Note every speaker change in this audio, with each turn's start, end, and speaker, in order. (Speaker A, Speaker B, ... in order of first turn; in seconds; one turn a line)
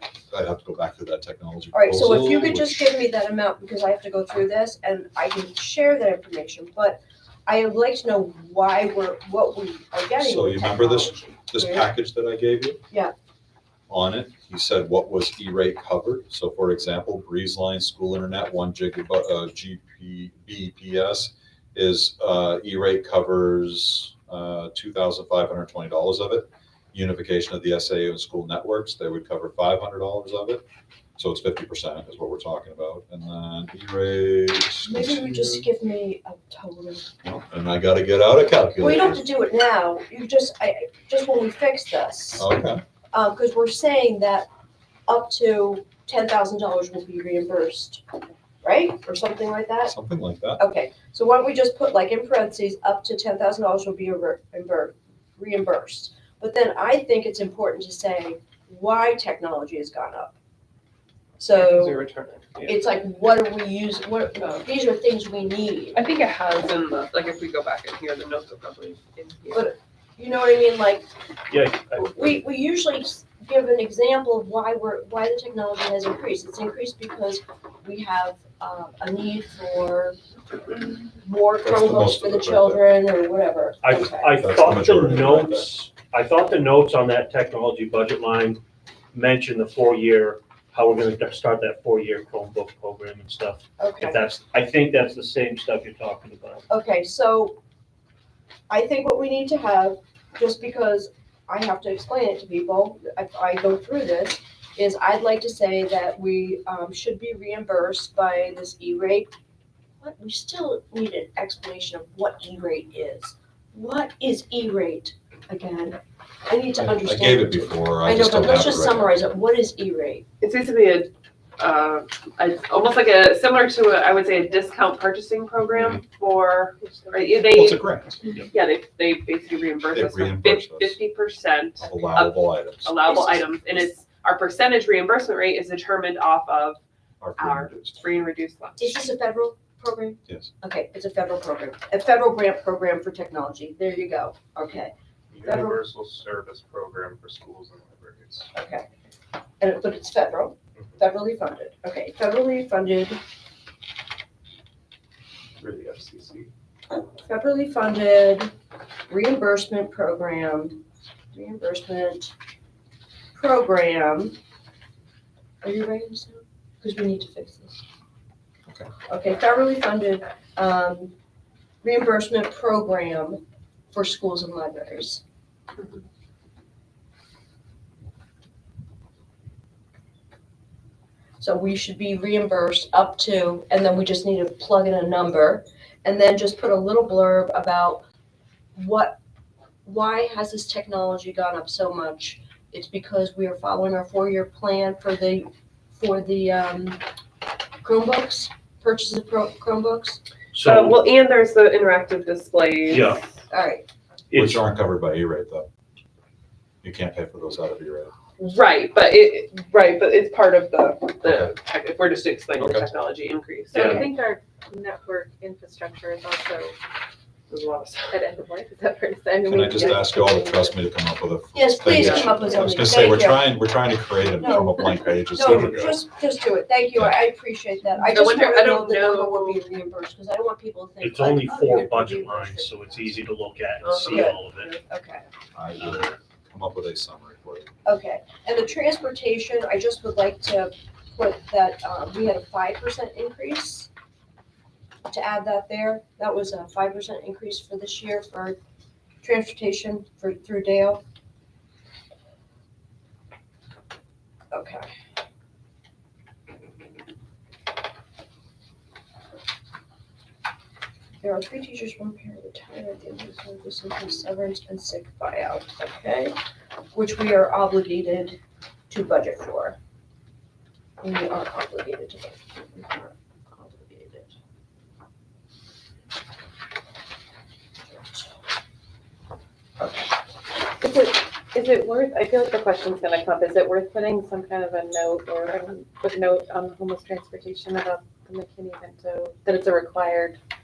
Speaker A: 0.3-2.8
Speaker B: 1.7-11.9
Speaker A: 10.2-12.8
Speaker A: 13.9-30.6
Speaker A: 31.2-35.7
Speaker B: 34.9-37.1
Speaker A: 37.2-39.2
Speaker B: 38.8-42.5
Speaker A: 42.4-42.8
Speaker B: 43.1-44.5
Speaker B: 45.1-48.0
Speaker B: 48.6-49.9
Speaker A: 49.8-50.6
Speaker B: 50.6-60.4
Speaker B: 61.4-62.0
Speaker C: 61.5-62.8
Speaker B: 62.6-66.0
Speaker C: 66.0-69.7
Speaker B: 69.5-71.1
Speaker D: 71.5-72.4
Speaker B: 72.0-80.2
Speaker B: 81.2-84.5
Speaker A: 81.6-82.8
Speaker D: 83.8-88.6
Speaker A: 84.4-85.7
Speaker D: 89.1-96.7
Speaker B: 93.8-94.2
Speaker B: 96.7-97.6
Speaker B: 98.7-109.3
Speaker B: 110.0-120.2
Speaker A: 116.8-119.2
Speaker C: 120.4-127.8
Speaker E: 126.8-127.5
Speaker A: 127.5-128.2
Speaker C: 128.4-136.8
Speaker A: 129.9-131.0
Speaker A: 131.8-132.9
Speaker B: 133.0-133.9
Speaker A: 137.2-138.1
Speaker C: 137.4-139.0
Speaker B: 138.8-145.8
Speaker F: 145.3-148.5
Speaker B: 148.5-148.9
Speaker B: 149.6-153.2
Speaker F: 155.6-156.5
Speaker B: 156.9-158.5
Speaker B: 159.1-160.8
Speaker B: 161.3-162.3
Speaker B: 163.3-164.4
Speaker B: 165.6-167.8
Speaker B: 169.1-171.2
Speaker B: 171.8-175.2
Speaker B: 181.4-188.1
Speaker B: 188.8-189.2
Speaker B: 189.9-197.0
Speaker B: 197.8-200.2
Speaker D: 200.5-201.0
Speaker C: 200.6-203.2
Speaker D: 202.9-203.2
Speaker B: 203.5-203.8
Speaker D: 204.3-204.6
Speaker A: 204.3-205.7
Speaker A: 206.8-208.1
Speaker C: 208.4-214.1
Speaker A: 211.2-211.5
Speaker A: 212.6-212.9
Speaker E: 213.7-216.8
Speaker D: 213.7-214.1
Speaker C: 217.5-218.2
Speaker E: 218.1-220.7
Speaker A: 219.5-226.0
Speaker B: 221.5-223.5
Speaker C: 221.9-222.4
Speaker B: 224.4-233.2
Speaker D: 225.5-225.9
Speaker C: 228.0-229.6
Speaker D: 231.0-234.7
Speaker C: 233.8-234.3
Speaker B: 233.9-235.2
Speaker A: 235.5-237.7
Speaker D: 235.8-236.1
Speaker B: 237.8-243.9
Speaker B: 245.1-248.6
Speaker B: 249.2-251.0
Speaker B: 254.5-254.9
Speaker B: 261.2-266.4
Speaker B: 266.9-268.4
Speaker B: 268.9-269.8
Speaker B: 271.0-274.3
Speaker B: 277.9-278.3
Speaker E: 280.8-290.4